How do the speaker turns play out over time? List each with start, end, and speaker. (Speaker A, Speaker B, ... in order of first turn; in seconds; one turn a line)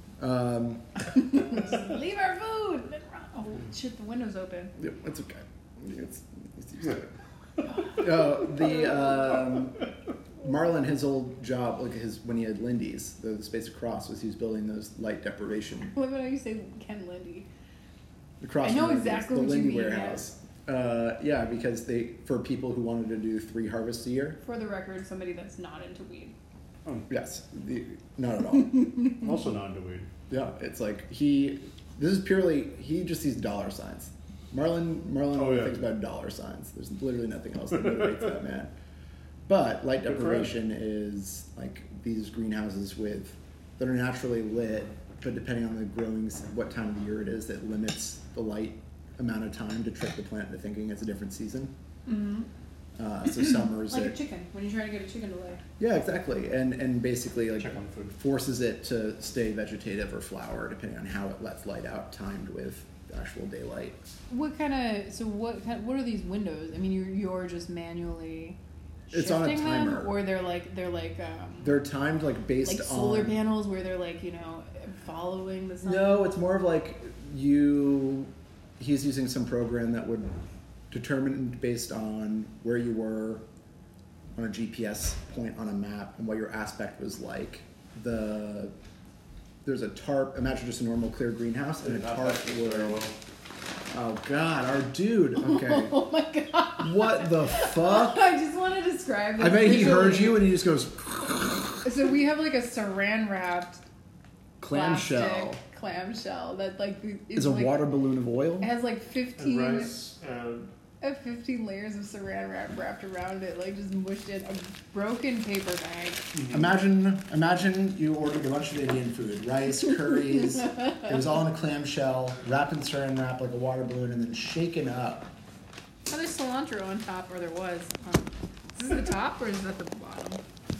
Speaker A: 0.2-1.1
Speaker B: 1.1-4.7
Speaker A: 4.8-7.1
Speaker A: 7.7-9.9
Speaker A: 10.4-15.9
Speaker B: 15.9-17.5
Speaker A: 18.4-24.4
Speaker B: 18.6-20.2
Speaker B: 24.4-26.3
Speaker A: 27.1-29.3
Speaker C: 29.1-30.1
Speaker A: 30.3-38.7
Speaker C: 35.4-35.9
Speaker A: 39.5-51.7
Speaker C: 40.0-40.5
Speaker B: 52.0-52.5
Speaker A: 53.0-54.2
Speaker B: 53.5-55.6
Speaker A: 55.8-64.0
Speaker C: 57.6-58.1
Speaker B: 64.3-68.6
Speaker A: 69.1-70.1
Speaker B: 69.1-71.8
Speaker A: 71.6-73.4
Speaker B: 72.6-76.3
Speaker A: 75.8-80.3
Speaker A: 80.9-83.4
Speaker A: 84.3-88.7
Speaker A: 89.6-93.1
Speaker C: 91.8-93.1
Speaker A: 93.9-96.0
Speaker B: 95.4-100.5
Speaker A: 96.8-98.2
Speaker A: 99.4-101.6
Speaker B: 101.8-103.8
Speaker A: 104.6-105.6
Speaker B: 104.7-107.9
Speaker A: 107.3-108.7
Speaker B: 108.6-110.0
Speaker C: 109.4-110.7
Speaker B: 111.0-116.3
Speaker A: 116.5-125.3
Speaker B: 126.1-130.4